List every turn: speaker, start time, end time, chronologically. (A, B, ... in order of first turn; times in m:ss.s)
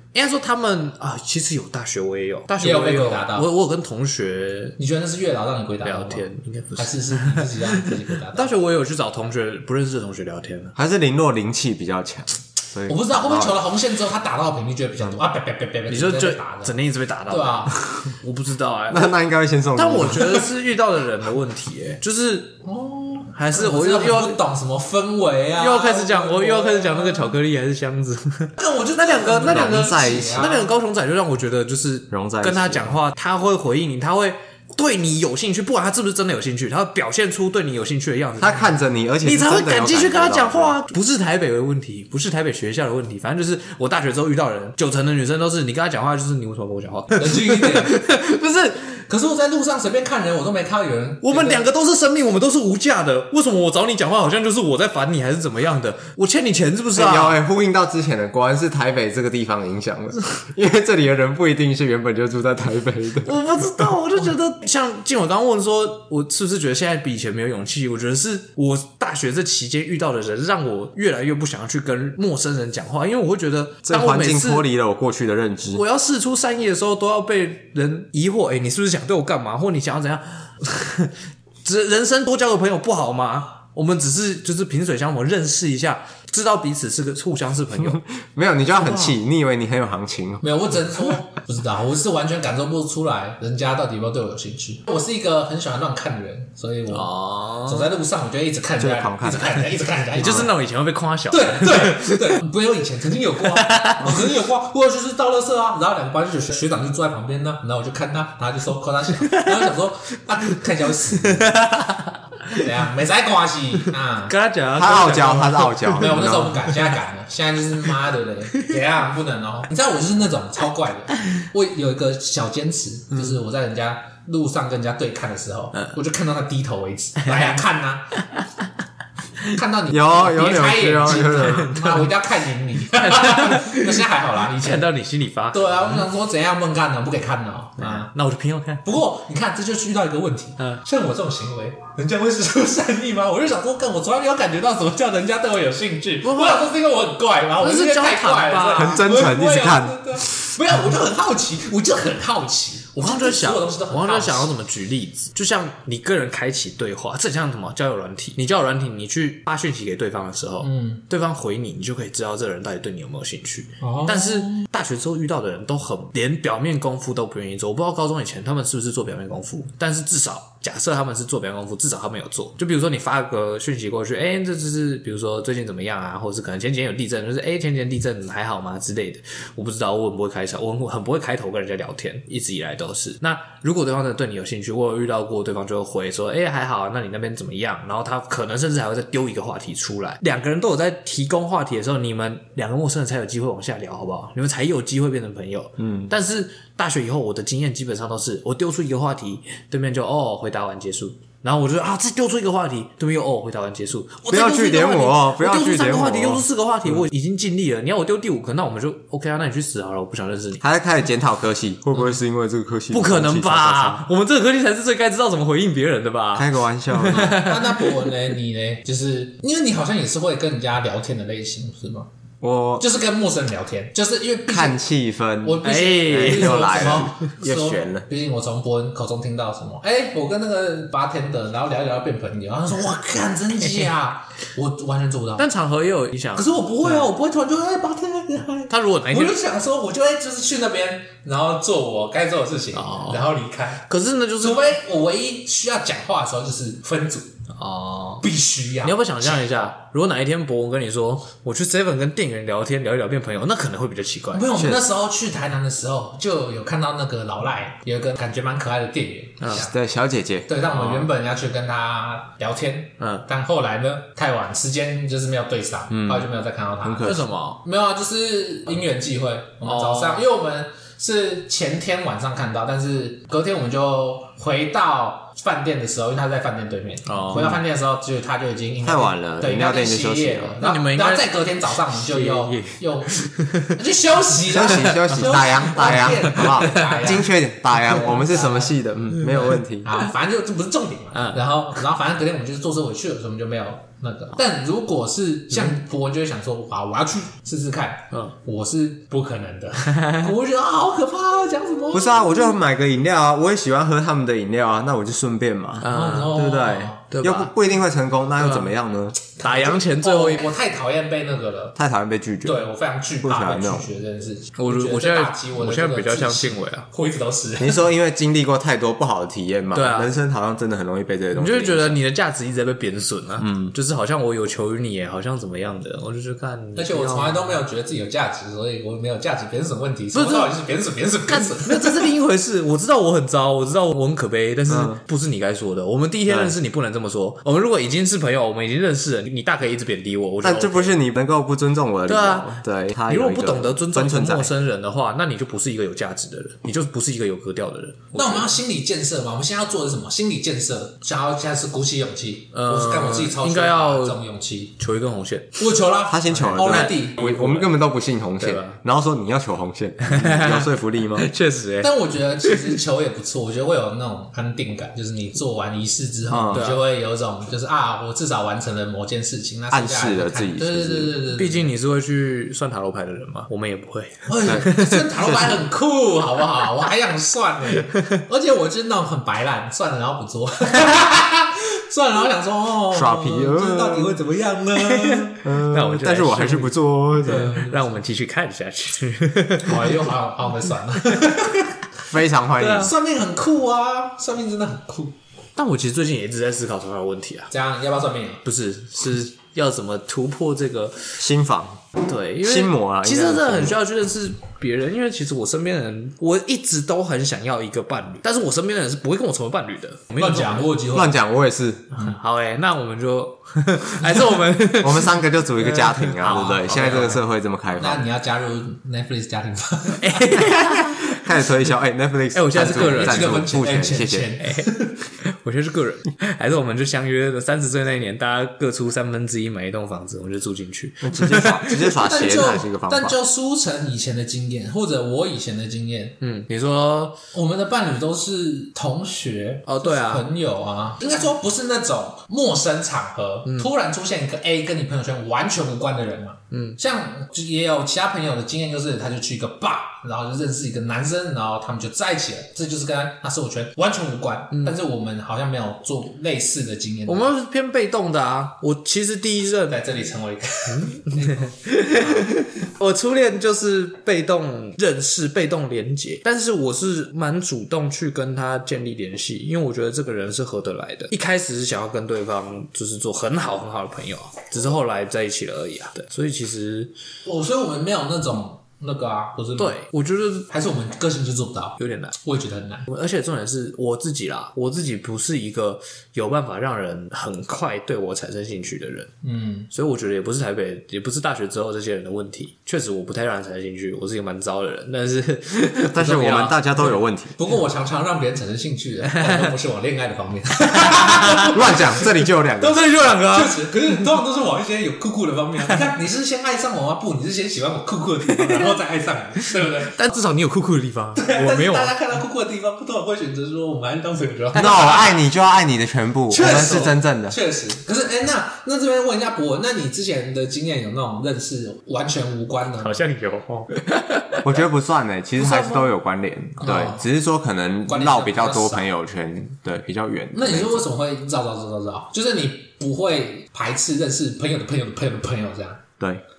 0:00.1-0:04.8 A
0:02.6-0:03.5 B
0:04.8-0:08.5 B
0:05.8-0:10.7 A
0:10.8-0:13.6 C
0:12.9-0:16.7 B
0:15.9-0:19.1 A
0:17.3-0:17.8 B
0:18.9-0:20.4 C
0:19.7-0:22.6 A
0:22.6-0:27.4 B
0:23.3-0:24.4 A
0:25.6-0:49.0 A
0:28.6-0:30.7 B
0:29.5-0:30.5 C
0:32.1-0:33.0 C
0:38.4-0:40.8 C
0:47.1-0:48.0 B
0:49.1-0:51.7 B
0:51.2-0:57.4 A
0:56.9-1:03.4 C
1:03.2-1:14.7 A
1:13.8-1:15.8 C
1:15.7-1:28.0 A
1:27.8-1:30.4 C
1:28.7-1:29.2 A
1:30.4-1:40.5 B
1:36.9-1:37.9 A
1:38.8-1:39.6 C
1:40.2-1:42.4 A
1:41.3-1:51.7 B
1:43.5-1:44.2 A
1:49.3-1:49.7 A
1:51.3-1:52.6 A
1:52.5-1:54.3 B
1:54.3-1:56.8 A
1:54.7-1:56.6 C
1:56.0-2:08.2 B
2:09.4-2:14.9 B
2:09.9-2:11.8 C
2:11.1-2:12.1 A
2:12.9-2:15.9 A
2:15.5-2:18.1 B
2:17.8-2:18.8 A
2:18.8-2:34.5 B
2:26.2-2:26.7 A
2:27.6-2:29.0 A
2:28.7-2:30.2 C
2:33.0-3:30.6 A
2:40.6-2:41.0 B
2:43.8-2:44.6 B
3:15.8-3:16.1 C
3:24.3-3:27.0 C
3:30.6-3:34.0 C
3:32.9-3:38.1 A
3:36.3-3:37.4 C
3:37.1-3:42.1 B
3:42.4-3:42.8 C
3:42.8-3:44.8 B
3:44.5-3:48.0 C
3:45.4-3:55.4 B
3:45.6-3:47.3 A
3:55.4-3:57.1 A
3:56.3-4:03.9 B
3:58.7-3:59.4 A
4:02.7-4:03.3 A
4:03.9-4:04.7 A
4:04.4-4:07.3 B
4:07.5-4:08.2 A
4:08.2-4:09.7 B
4:08.8-4:14.5 A
4:14.3-4:19.7 B
4:14.6-4:14.8 C
4:19.5-4:20.8 C
4:20.5-5:02.5 B
4:20.8-4:21.1 A
4:23.0-4:23.2 A
4:25.9-4:26.3 C
4:26.8-4:27.3 C
4:27.0-4:27.6 A
4:29.6-4:30.2 A
4:37.1-4:37.6 A
4:38.8-4:40.6 C
4:40.6-4:43.8 A
4:44.5-4:50.0 C
4:44.7-4:47.2 A
4:51.1-4:51.4 A
4:59.9-5:00.3 A
5:01.9-5:09.2 C
5:05.8-5:07.5 A
5:05.8-5:07.0 B
5:08.4-5:08.7 A
5:09.4-5:10.5 A
5:09.4-5:11.8 B
5:11.8-5:12.6 C
5:12.4-5:17.8 B
5:13.2-5:13.9 C
5:14.6-5:16.9 A
5:17.6-5:22.0 C
5:19.7-5:20.1 A
5:21.3-5:27.6 A
5:23.4-5:23.7 C
5:26.8-5:32.1 B
5:30.1-5:30.5 A
5:31.3-5:41.0 A
5:34.7-5:35.0 C
5:36.3-5:36.5 C
5:40.4-5:44.5 C
5:42.1-5:48.5 A
5:48.1-5:54.7 B
5:52.5-5:54.2 A
5:54.8-5:55.6 A
5:55.6-5:57.6 B
5:56.1-6:01.3 C
5:56.3-5:57.7 A
5:58.4-5:58.8 A
6:00.0-6:01.9 A
6:01.8-6:11.7 B
6:02.4-6:02.8 A
6:06.3-6:06.6 C
6:06.5-6:06.8 A
6:09.7-6:11.1 C
6:11.4-6:15.5 A
6:14.3-6:25.4 B
6:22.9-6:24.2 C
6:24.8-6:30.1 A
6:25.4-6:27.6 C
6:27.2-6:27.9 B
6:29.6-6:31.7 B
6:32.1-6:32.9 C
6:32.6-6:32.9 A
6:32.8-6:35.1 B
6:35.6-6:37.5 A
6:37.5-6:38.4 B
6:38.4-6:41.1 A
6:41.2-6:41.9 C
6:42.0-6:50.7 A
6:42.4-6:43.8 C
6:50.2-6:51.2 B
6:50.9-6:51.9 C
6:52.0-6:57.2 A
6:54.8-6:58.0 C
6:56.2-6:57.2 B
6:57.8-7:00.6 B
7:00.0-7:01.2 A
7:01.0-7:04.3 C
7:02.3-7:03.5 A
7:02.5-7:05.0 B
7:04.4-7:11.9 A
7:11.0-7:13.2 C
7:11.8-7:16.2 B
7:16.2-7:17.2 A
7:17.3-7:37.3 B
7:19.7-7:20.3 A
7:26.5-7:26.8 A
7:37.1-7:39.8 A
7:39.7-7:42.3 B
7:40.7-7:56.9 A
7:57.2-7:59.8 B
7:59.6-8:00.5 A
8:00.5-8:02.9 B
8:01.8-8:02.1 A
8:02.9-8:09.1 A
8:09.2-8:09.7 B
8:09.7-8:16.6 A
8:15.9-8:17.4 C
8:16.8-8:22.1 B
8:19.1-8:19.5 A
8:20.8-8:21.6 A
8:21.4-8:22.9 C
8:22.6-8:24.0 A
8:22.7-8:30.0 B
8:28.3-8:28.8 A
8:29.8-8:31.9 A
8:31.2-8:35.2 B
8:34.5-8:37.4 C
8:34.6-8:35.0 A
8:36.3-8:43.0 B
8:42.8-8:44.6 A
8:44.4-8:50.9 C
8:45.4-8:45.9 A
8:46.6-8:47.0 B
8:47.8-8:48.9 B
8:50.3-8:55.8 B